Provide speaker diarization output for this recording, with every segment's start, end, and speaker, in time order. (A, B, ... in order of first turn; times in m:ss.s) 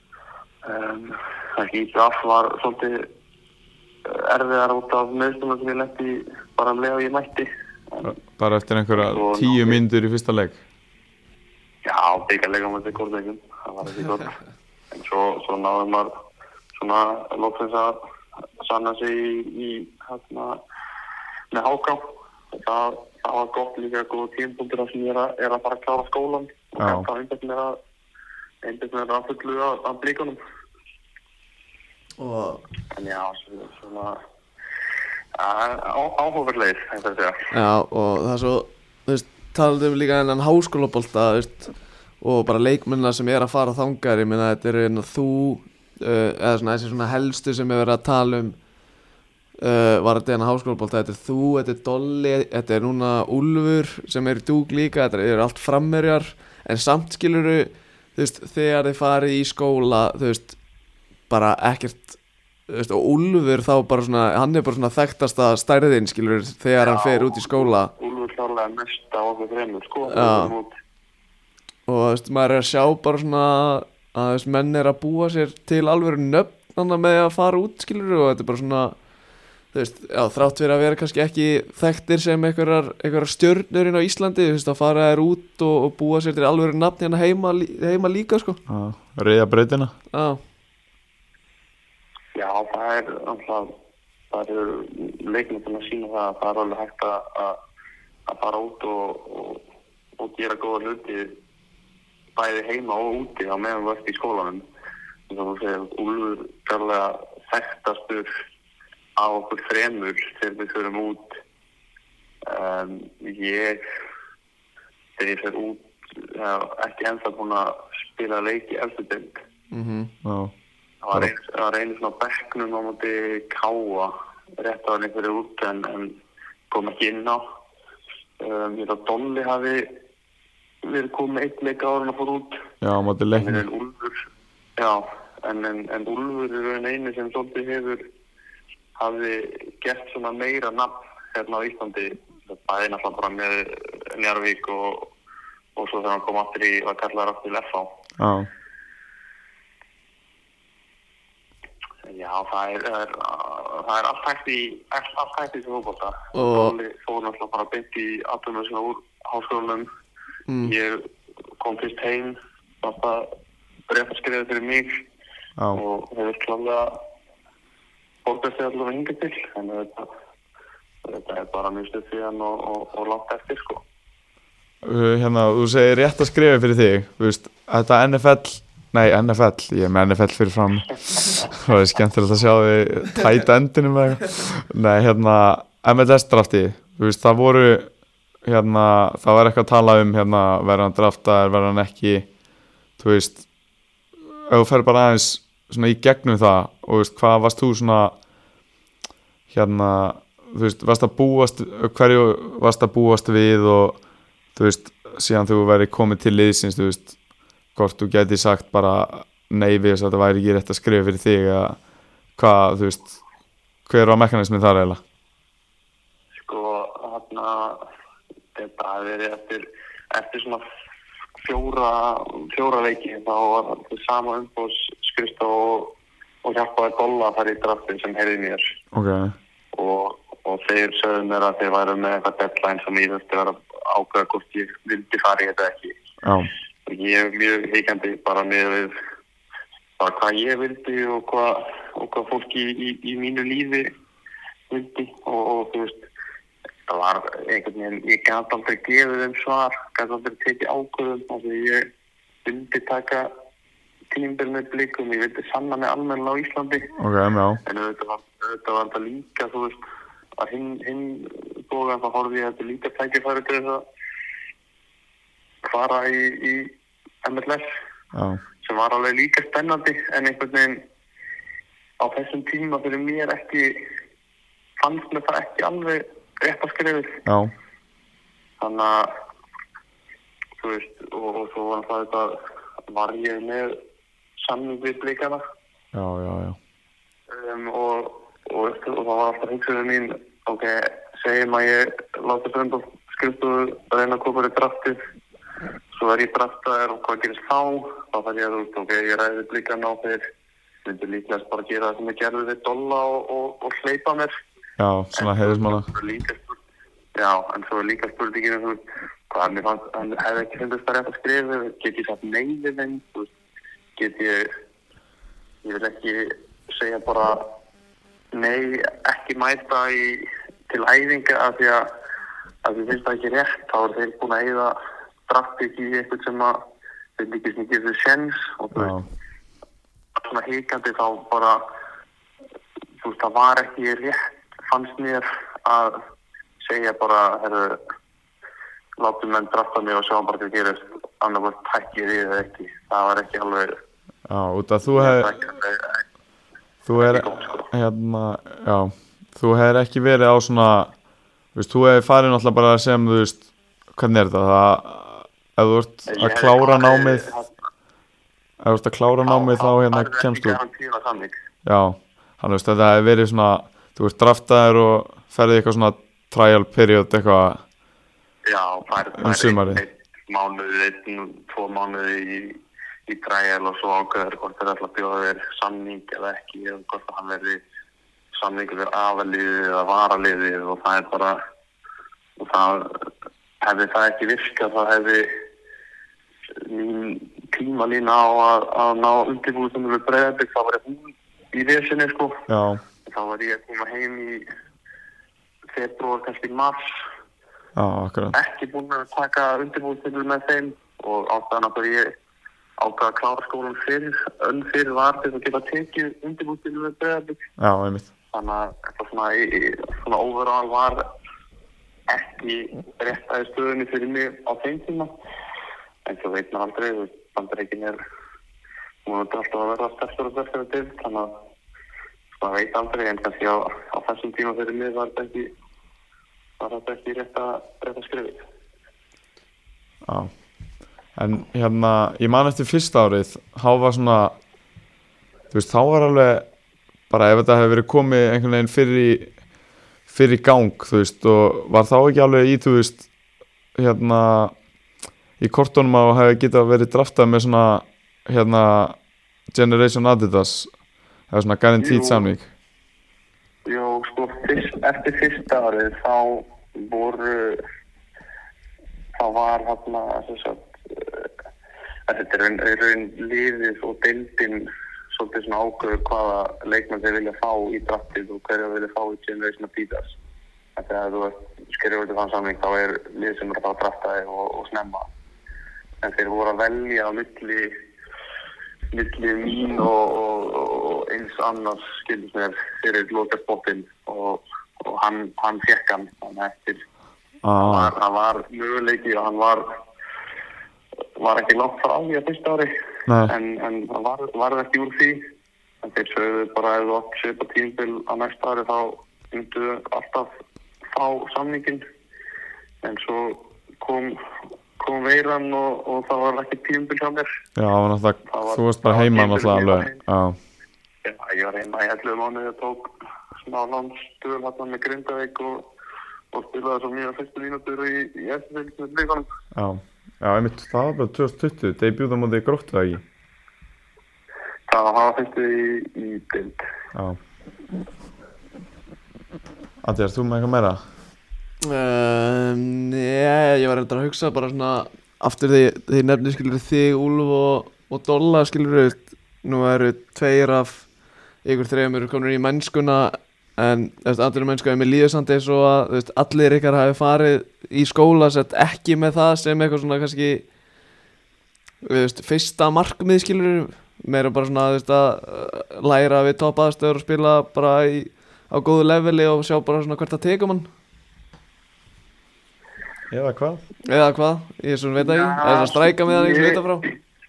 0:00.6-0:03.1 A
0:04.0-0:08.1 A
0:08.0-0:10.6 B
0:08.9-0:09.8 A
0:11.8-0:14.4 A
0:14.9-0:16.1 A
0:16.7-0:18.0 A
0:18.6-0:20.6 A
0:21.5-0:27.8 A
0:26.8-0:27.1 B
0:28.6-0:30.4 A
0:32.2-0:32.6 C
0:32.9-0:34.2 A
0:35.4-0:37.5 A
0:37.5-0:48.6 C
0:49.6-1:00.6 C
1:01.3-1:02.2 C
1:02.7-1:07.9 C
1:06.8-1:10.7 A
1:10.1-1:10.5 C
1:11.9-1:19.0 C
1:19.7-1:28.6 C
1:28.7-1:29.9 B
1:30.1-1:30.4 C
1:32.3-1:33.7 A
1:34.3-1:37.6 A
1:38.3-1:39.6 A
1:40.2-1:41.4 A
1:42.4-1:44.6 A
1:45.3-1:48.3 A
1:49.2-1:51.4 A
1:52.4-1:53.8 A
1:55.2-1:59.4 A
1:59.7-2:00.1 C
2:00.2-2:00.5 B
2:01.0-2:07.4 A
2:08.4-2:10.0 A
2:10.8-2:12.6 A
2:12.8-2:13.6 B
2:13.3-2:14.2 A
2:14.8-2:18.1 A
2:19.0-2:25.1 A
2:25.8-2:28.0 A
2:28.2-2:28.5 B
2:32.0-2:39.9 A
2:36.3-2:36.8 C
2:40.5-2:40.7 C
2:40.6-2:41.1 A
2:41.6-2:43.3 A
2:43.9-2:45.0 A
2:45.7-2:47.0 A
2:48.2-2:50.1 A
2:51.0-2:53.8 A
2:54.8-3:07.9 B
3:08.4-3:12.3 B
3:13.0-3:13.4 B
3:14.3-3:18.1 B
3:19.5-3:24.0 B
3:24.6-3:27.1 B
3:27.7-3:31.8 B
3:32.4-3:33.1 B
3:33.9-3:35.0 B
3:36.4-3:37.8 A
3:38.5-3:40.6 A
3:41.4-3:48.6 A
3:48.9-3:49.3 B
3:49.7-3:56.0 A
3:56.2-3:56.5 B
3:56.8-3:58.9 A
4:00.0-4:03.9 A
4:04.7-4:06.0 A
4:06.9-4:11.9 A
4:12.4-4:13.3 A
4:14.1-4:16.9 A
4:17.0-4:17.6 B
4:17.6-4:19.8 A
4:20.4-4:23.8 A
4:25.6-4:27.7 A
4:28.1-4:28.4 B
4:28.6-4:30.8 A
4:32.0-4:33.9 A
4:34.8-4:37.2 A
4:37.2-4:37.5 B
4:38.6-4:39.1 A
4:40.6-4:42.4 A
4:42.9-4:43.8 A
4:44.4-4:45.4 A
4:45.9-4:46.6 B
4:47.3-4:55.0 A
4:55.9-5:00.2 A
5:00.8-5:04.3 A
5:04.8-5:05.9 B
5:05.2-5:06.5 A
5:07.1-5:13.3 A
5:14.0-5:14.5 A
5:15.6-5:17.5 A
5:18.3-5:21.9 A
5:22.6-5:24.8 A
5:25.3-5:26.6 A
5:27.2-5:28.9 A
5:28.7-5:29.0 B
5:30.2-5:31.6 A
5:33.0-5:36.0 A
5:36.6-5:37.8 A
5:39.0-5:43.8 A
5:44.3-5:45.4 B
5:44.8-5:46.0 A
5:46.8-5:50.9 B
5:47.0-5:47.7 A
5:51.5-5:53.4 B
5:53.9-5:57.3 B
5:56.1-5:57.5 A
5:58.6-6:00.6 B
5:59.3-6:01.4 A
6:01.6-6:07.6 B
6:08.4-6:17.6 A
6:09.2-6:09.8 B
6:18.3-6:21.4 A
6:22.4-6:23.0 A
6:23.6-6:25.4 A
6:26.5-6:32.4 A
6:32.5-6:32.8 B
6:33.0-6:34.5 A
6:35.7-6:37.0 A
6:37.8-6:38.4 B
6:38.3-6:42.1 A
6:42.8-6:47.4 A
6:47.6-6:48.1 B
6:48.3-6:51.0 A
6:52.1-6:55.1 A
6:56.0-6:58.0 A
6:59.0-7:01.4 A
7:02.3-7:05.5 A
7:06.6-7:08.4 A
7:10.0-7:10.3 B
7:11.2-7:14.3 B
7:15.5-7:16.4 B
7:17.1-7:19.3 B
7:20.1-7:23.0 B
7:23.8-7:24.5 B
7:25.4-7:29.0 B
7:29.5-7:30.7 B
7:31.3-7:32.4 B
7:31.8-7:32.3 A
7:33.6-7:37.6 A
7:39.2-7:41.3 A
7:42.1-7:50.2 A
7:50.8-7:55.1 A
7:56.0-7:57.7 A
7:58.9-8:06.8 A
8:07.4-8:07.9 B
8:07.6-8:09.7 A
8:11.2-8:12.7 A
8:13.1-8:13.3 B
8:13.2-8:15.2 A
8:15.8-8:20.3 A
8:20.9-8:21.8 A
8:22.8-8:24.2 A
8:24.8-8:27.3 A
8:27.6-8:30.4 B
8:28.3-8:30.0 A
8:31.0-8:32.9 A
8:33.4-8:35.7 A
8:36.3-8:39.3 A
8:39.5-8:43.0 B
8:44.7-8:46.6 A
8:46.9-8:47.2 B
8:49.8-8:50.8 B
8:51.6-9:00.9 C
9:01.4-9:10.5 C
9:11.8-9:20.7 C
9:23.1-9:23.6 B
9:23.8-9:26.8 C
9:25.0-9:26.6 A